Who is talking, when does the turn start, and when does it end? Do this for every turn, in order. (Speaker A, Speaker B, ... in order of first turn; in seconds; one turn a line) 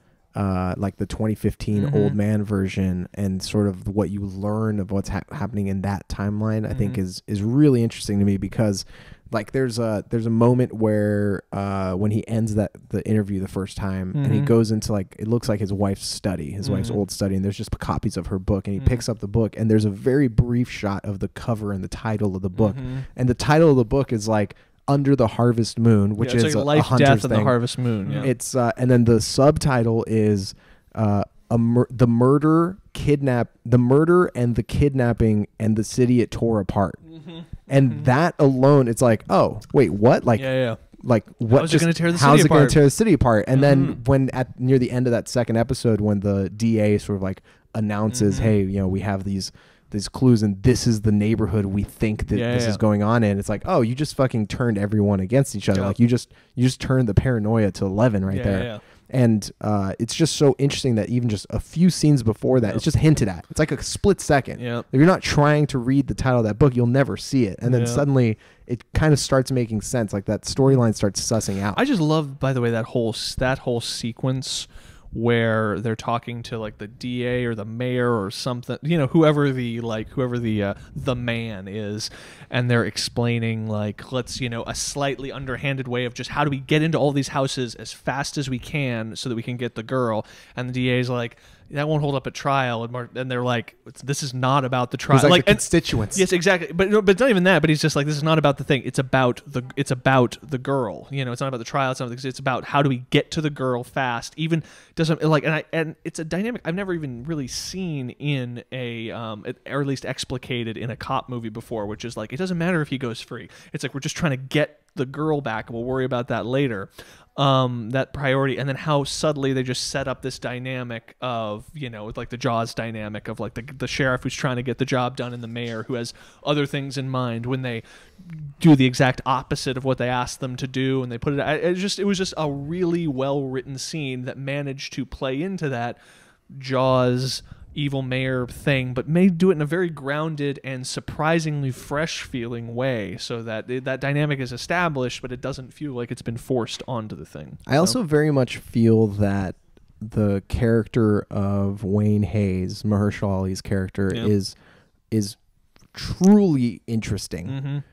Speaker A: 0.3-37.0
Speaker B: 1.7-2.1
Speaker B: 6.7-7.0
Speaker B: 14.1-14.5
Speaker B: 16.6-17.0
Speaker B: 18.8-19.0
Speaker B: 22.6-23.1
Speaker B: 26.2-28.3
Speaker B: 37.2-38.0
Speaker A: 37.7-71.8
Speaker B: 40.4-40.8
Speaker B: 41.5-42.8
Speaker B: 48.1-48.5
Speaker B: 52.3-52.8
Speaker B: 58.3-58.8
Speaker B: 64.6-64.9
Speaker B: 67.6-68.0
Speaker B: 71.8-136.0
Speaker A: 95.1-96.2
Speaker B: 136.5-148.0
Speaker A: 147.7-154.6
Speaker A: 155.1-155.4
Speaker A: 155.9-157.6
Speaker B: 157.5-157.8